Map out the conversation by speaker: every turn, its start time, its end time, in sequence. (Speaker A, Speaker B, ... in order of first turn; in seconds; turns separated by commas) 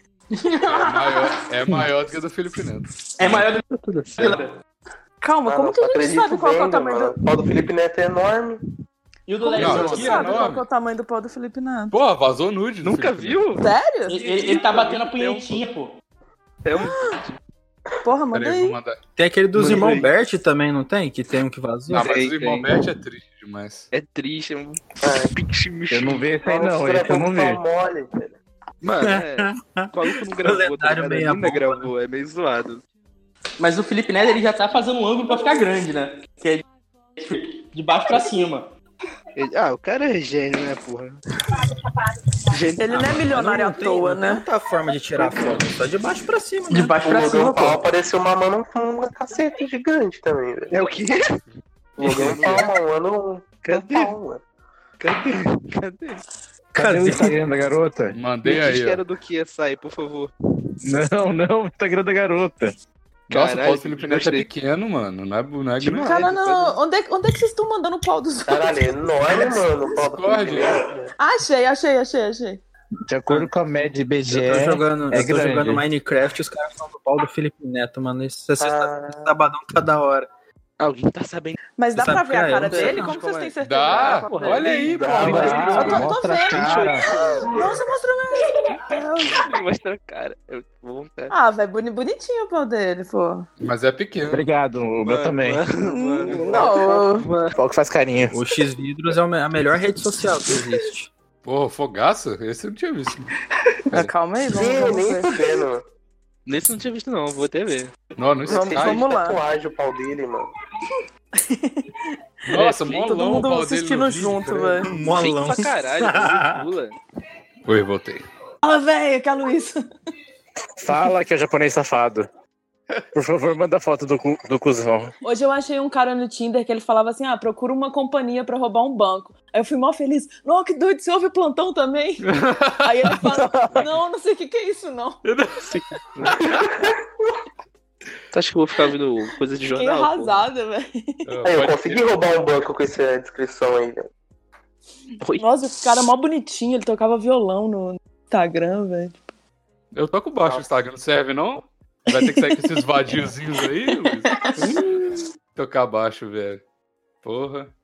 Speaker A: 0.4-1.4, Speaker B: 0.7-3.4, Speaker C: 3.2-3.6, Speaker D: 3.4-4.4, Speaker C: 4.2-4.5, Speaker A: 5.2-7.2, Speaker E: 5.4-8.6, Speaker C: 9.3-10.4, Speaker A: 9.4-12.0, Speaker B: 9.6-10.6, Speaker B: 11.9-13.4, Speaker D: 12.8-13.7, Speaker A: 13.6-14.2, Speaker C: 14.1-15.9, Speaker D: 14.2-15.6, Speaker D: 16.6-17.4, Speaker A: 16.8-17.1, Speaker A: 18.0-18.8, Speaker B: 18.3-19.0, Speaker F: 19.2-22.1, Speaker D: 19.6-20.1, Speaker B: 21.9-23.9, Speaker D: 21.9-22.8, Speaker D: 23.9-26.3, Speaker E: 25.0-25.3, Speaker G: 25.9-27.6, Speaker E: 26.4-28.3, Speaker D: 28.8-32.8, Speaker F: 29.0-31.9, Speaker C: 33.6-36.6, Speaker C: 37.2-38.7, Speaker D: 39.4-41.2, Speaker D: 42.5-43.3, Speaker A: 42.8-44.4, Speaker F: 43.3-47.0, Speaker D: 45.2-45.5, Speaker C: 46.7-47.8, Speaker E: 47.0-50.7, Speaker D: 50.7-51.2, Speaker D: 52.0-52.7, Speaker E: 52.0-54.4, Speaker D: 53.6-54.1, Speaker D: 55.0-56.2, Speaker G: 56.7-58.1, Speaker F: 56.8-57.4, Speaker B: 58.1-59.0, Speaker D: 58.4-60.3, Speaker G: 60.8-62.7, Speaker B: 63.3-66.6, Speaker D: 63.3-64.5, Speaker A: 65.8-68.9, Speaker E: 68.5-71.1, Speaker B: 70.1-70.8, Speaker A: 71.2-72.6, Speaker G: 73.1-75.8, Speaker F: 74.2-80.3, Speaker E: 78.6-79.3, Speaker D: 80.8-81.5, Speaker A: 81.8-89.4, Speaker F: 81.9-83.1, Speaker D: 82.5-87.8, Speaker B: 83.6-86.0, Speaker G: 85.2-87.1, Speaker F: 85.2-85.8, Speaker D: 88.7-91.3, Speaker A: 91.3-93.5, Speaker B: 93.6-94.5, Speaker G: 94.3-95.6, Speaker D: 95.1-97.5, Speaker A: 95.8-97.3, Speaker E: 96.4-96.7, Speaker G: 97.5-98.4, Speaker F: 98.3-101.1, Speaker B: 101.4-103.2, Speaker A: 103.9-105.4, Speaker E: 104.4-105.8, Speaker D: 106.5-107.9, Speaker B: 108.2-109.0, Speaker A: 108.5-109.4, Speaker E: 108.5-110.5, Speaker A: 111.3-114.9, Speaker B: 112.5-114.9, Speaker F: 114.9-116.6, Speaker D: 115.0-116.9, Speaker B: 117.7-118.2, Speaker A: 118.6-119.8, Speaker G: 120.8-122.3, Speaker G: 123.1-125.1, Speaker A: 125.2-135.2, Speaker B: 132.2-133.2, Speaker G: 133.3-133.8, Speaker B: 135.2-135.6, Speaker D: 135.7-136.9, Speaker B: 136.3-136.6, Speaker D: 138.3-140.5, Speaker A: 139.7-141.2, Speaker B: 141.2-142.0, Speaker E: 141.4-144.1, Speaker D: 145.2-145.9, Speaker A: 145.4-149.3, Speaker B: 149.9-154.5, Speaker E: 150.4-150.7, Speaker A: 152.1-152.5, Speaker A: 154.3-154.6, Speaker B: 155.5-156.6, Speaker B: 157.2-157.7